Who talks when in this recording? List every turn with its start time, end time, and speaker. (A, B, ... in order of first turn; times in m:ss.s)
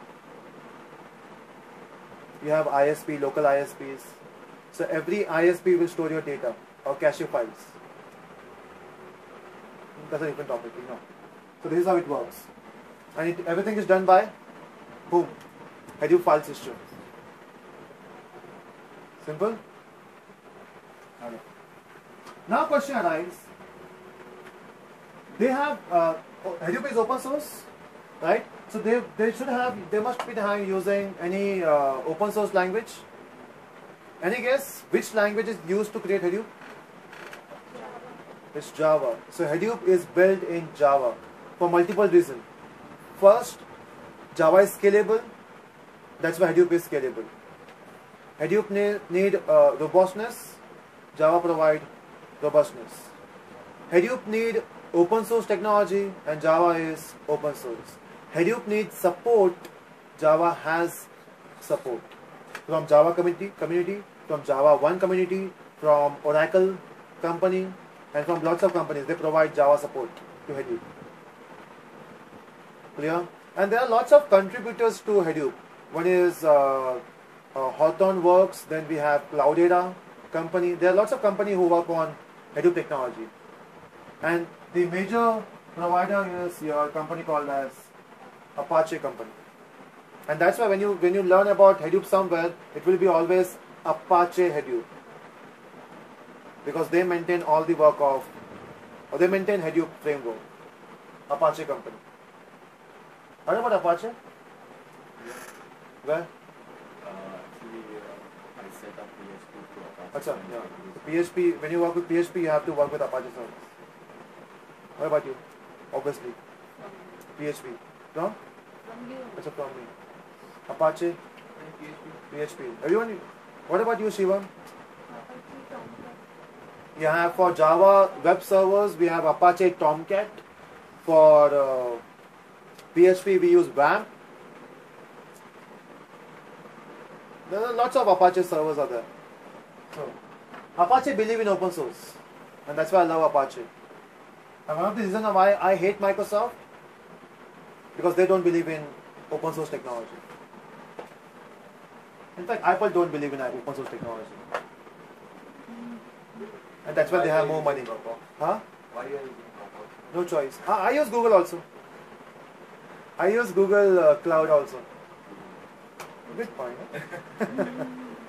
0:02.4-0:04.1 A
0:04.7-0:07.7 A
0:10.0-0:11.0 A
0:11.6-0:12.5 A
0:13.2-0:14.3 A
0:15.1-0:15.4 A
0:16.0-0:16.8 A
0:19.2-0:19.6 A
0:22.5-0:23.5 A
0:25.3-0:27.7 A
0:28.2-0:33.0 A
0:34.2-0:36.5 A
0:38.5-0:42.4 A
0:43.2-0:43.6 A
0:44.3-0:45.3 A
0:46.2-0:47.3 A
0:48.4-0:50.6 A
0:51.2-0:51.9 A
0:52.4-0:53.1 A
0:53.9-0:59.7 A
1:00.2-1:01.1 A
1:01.6-1:02.1 A
1:02.7-1:10.8 A
1:13.0-1:17.0 A
1:17.6-1:23.3 A
1:24.2-1:27.9 A
1:28.6-1:29.4 A
1:30.3-1:34.9 A
1:36.6-1:38.3 A
1:39.1-1:40.4 A
1:41.3-1:42.0 A
1:43.5-1:44.2 A
1:46.0-1:46.3 A
1:47.0-1:51.2 B
1:50.1-1:53.6 A
1:55.0-1:55.4 A
1:55.9-1:56.4 A
1:57.4-1:58.4 A
1:58.8-1:59.4 C
1:59.4-1:59.9 A
2:00.7-2:01.2 A
2:01.6-2:02.1 B
2:02.3-2:04.5 A
2:05.1-2:06.2 C
2:07.0-2:10.4 A
2:11.0-2:12.0 A
2:12.9-2:14.1 A
2:17.5-2:19.1 A
2:20.8-2:23.7 A
2:24.7-2:26.6 A
2:28.0-2:30.2 A
2:32.4-2:34.4 A
2:35.7-2:36.0 C
2:36.8-2:38.6 A
2:36.9-2:38.2 B
2:38.9-2:40.0 B
2:40.1-2:41.6 A
2:43.2-2:44.8 A
2:45.3-2:45.6 B
2:46.3-2:48.0 A